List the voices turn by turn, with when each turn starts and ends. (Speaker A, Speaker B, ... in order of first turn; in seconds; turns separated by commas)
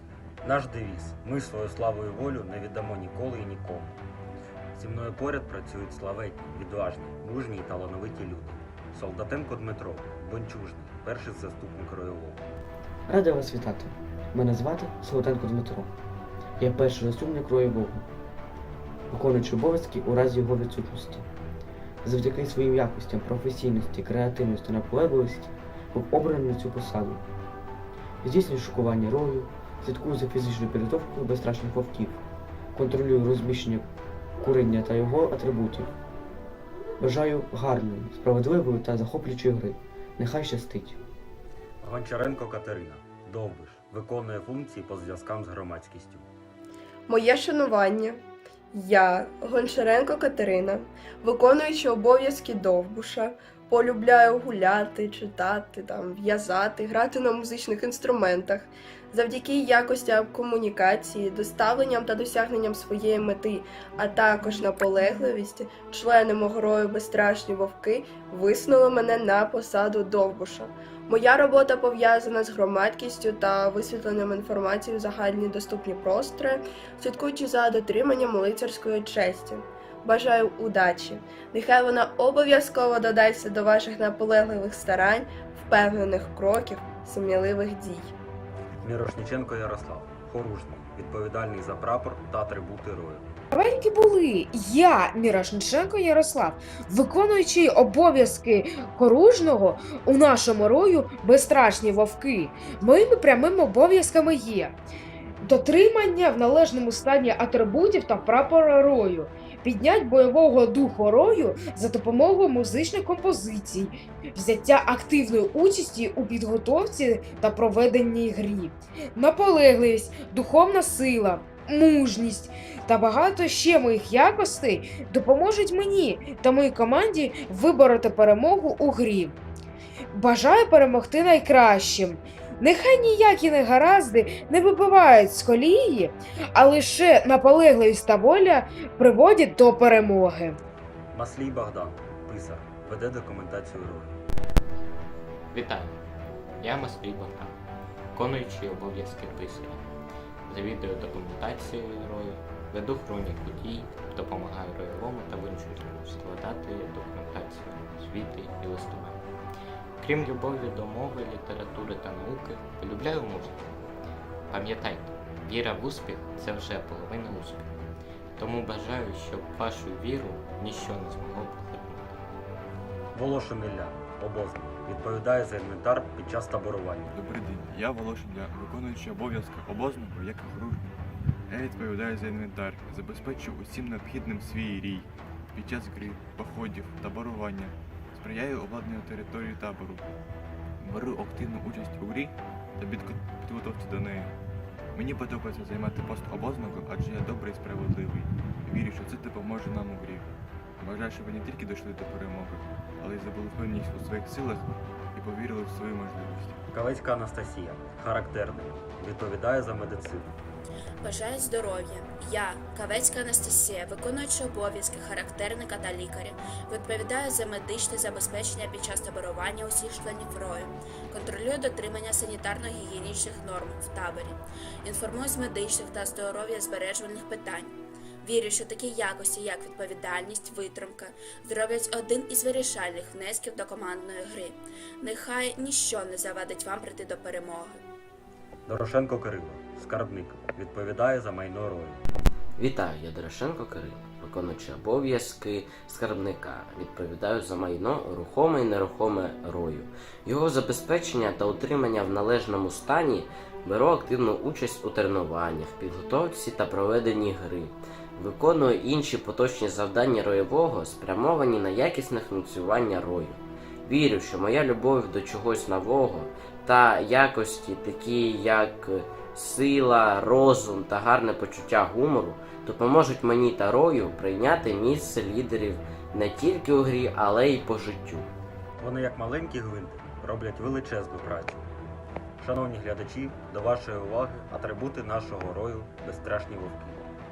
Speaker A: 0.4-4.0, Speaker A: 4.7-12.5, Speaker B: 13.1-15.9, Speaker B: 16.6-18.1, Speaker B: 19.1-21.3, Speaker B: 22.0-27.2, Speaker B: 28.2-32.2, Speaker B: 32.7-33.9, Speaker B: 34.4-35.9, Speaker B: 37.0-41.0, Speaker A: 41.8-46.3, Speaker C: 47.1-88.1, Speaker A: 88.8-93.3, Speaker D: 93.5-104.7, Speaker D: 105.4-129.4, Speaker D: 130.1-140.6, Speaker A: 141.1-144.2, Speaker E: 145.5-146.0, Speaker E: 146.6-147.6, Speaker E: 148.1-149.8, Speaker E: 150.5-159.2, Speaker E: 160.0-163.8, Speaker E: 164.5-167.7, Speaker E: 168.4-172.2, Speaker A: 173.1-177.2, Speaker F: 177.1-180.9, Speaker F: 181.5-190.1, Speaker F: 190.8-194.3, Speaker F: 194.9-206.6, Speaker A: 206.7-210.4, Speaker G: 211.0-237.8, Speaker A: 238.7-242.0, Speaker H: 242.6-278.3, Speaker A: 278.8-281.6, Speaker A: 282.4-287.1